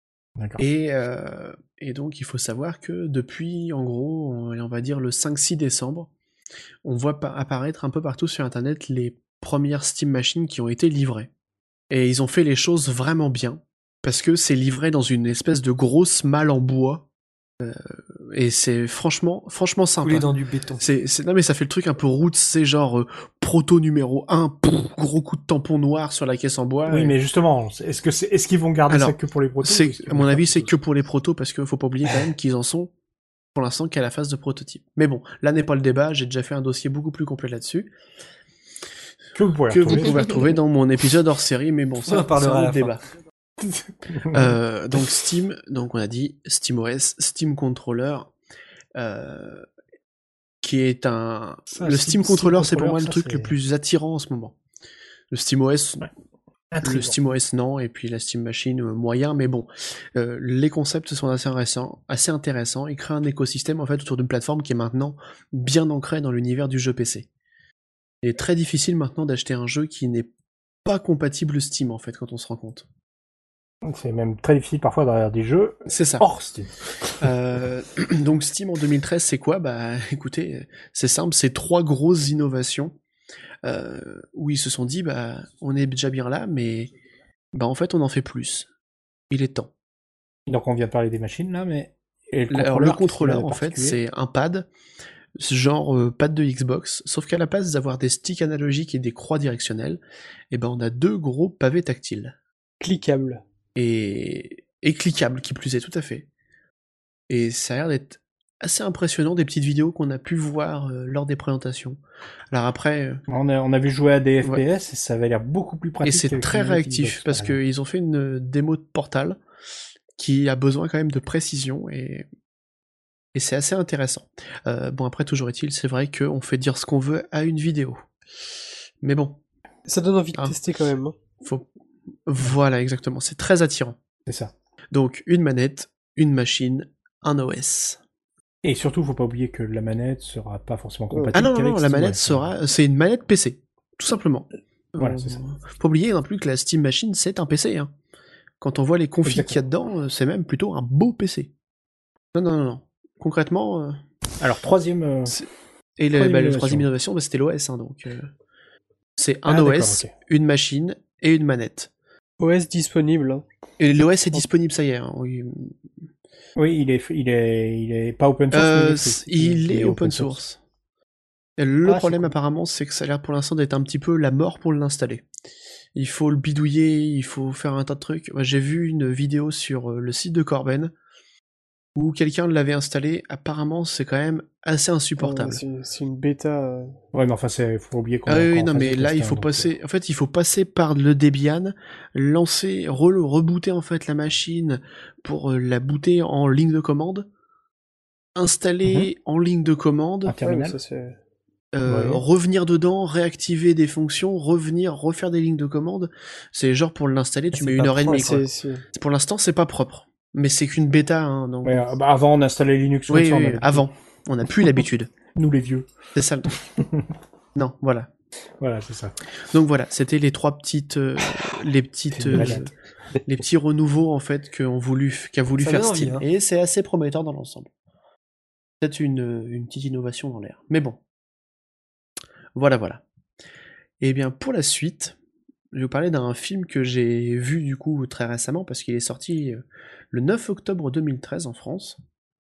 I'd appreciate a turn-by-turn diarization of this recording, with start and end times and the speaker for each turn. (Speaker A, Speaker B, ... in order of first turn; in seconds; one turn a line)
Speaker A: 0.4-0.6
Speaker B: 0.6-6.1
Speaker B: 6.8-11.3
Speaker B: 11.9-17.1
Speaker B: 17.6-20.3
Speaker C: 20.0-20.9
Speaker B: 20.8-27.1
Speaker A: 26.9-30.7
Speaker B: 28.9-32.9
Speaker B: 33.5-37.9
Speaker A: 39.4-40.3
Speaker B: 39.7-43.0
Speaker C: 42.1-43.0
Speaker A: 43.6-44.5
Speaker B: 44.3-48.3
Speaker B: 49.0-49.7
Speaker B: 50.6-54.5
Speaker A: 51.7-53.5
Speaker B: 55.3-56.1
Speaker A: 56.7-57.1
Speaker B: 56.8-67.3
Speaker B: 68.2-70.3
Speaker B: 70.8-72.9
Speaker A: 73.8-77.3
Speaker B: 75.9-76.3
Speaker B: 77.2-83.0
Speaker B: 83.6-86.9
Speaker B: 87.5-88.7
Speaker B: 89.3-89.7
Speaker A: 90.5-94.0
Speaker B: 92.5-94.7
Speaker B: 95.4-102.3
Speaker D: 102.8-103.4
Speaker B: 103.8-106.3
Speaker B: 107.3-112.0
Speaker B: 112.5-113.2
Speaker A: 113.3-117.6
Speaker B: 116.0-119.4
Speaker B: 120.2-122.3
Speaker B: 123.3-128.0
Speaker B: 129.0-129.4
Speaker D: 129.9-131.2
Speaker B: 131.4-131.7
Speaker B: 132.3-134.0
Speaker A: 134.3-134.5
Speaker B: 134.9-138.0
Speaker A: 138.6-142.4
Speaker D: 141.1-141.4
Speaker B: 141.3-147.9
Speaker A: 145.0-145.4
Speaker B: 148.6-151.5
Speaker A: 149.2-149.6
Speaker B: 152.3-154.0
Speaker A: 154.4-155.4
Speaker B: 156.0-158.3
Speaker A: 156.1-156.9
Speaker B: 159.2-161.9
Speaker A: 159.5-160.1
Speaker D: 162.4-163.4
Speaker B: 163.8-165.7
Speaker A: 166.6-170.4
Speaker B: 168.5-170.6
Speaker B: 171.6-175.3
Speaker B: 175.9-180.9
Speaker B: 181.9-185.6
Speaker D: 185.2-186.9
Speaker A: 187.1-189.7
Speaker B: 188.3-197.3
Speaker B: 198.3-200.4
Speaker A: 200.3-200.8
Speaker D: 200.4-201.2
Speaker B: 201.7-211.9
Speaker A: 201.9-202.2
Speaker C: 207.5-208.4
Speaker D: 208.1-208.8
Speaker A: 211.6-213.9
Speaker B: 213.1-215.1
Speaker A: 215.3-215.9
Speaker B: 216.1-216.5
Speaker A: 216.8-217.1
Speaker B: 217.6-218.1
Speaker A: 218.6-219.2
Speaker B: 219.5-222.7
Speaker A: 222.1-222.7
Speaker B: 223.3-227.7
Speaker C: 225.6-226.3
Speaker B: 228.8-231.0
Speaker B: 232.6-233.0
Speaker B: 234.0-235.2
Speaker B: 235.7-242.0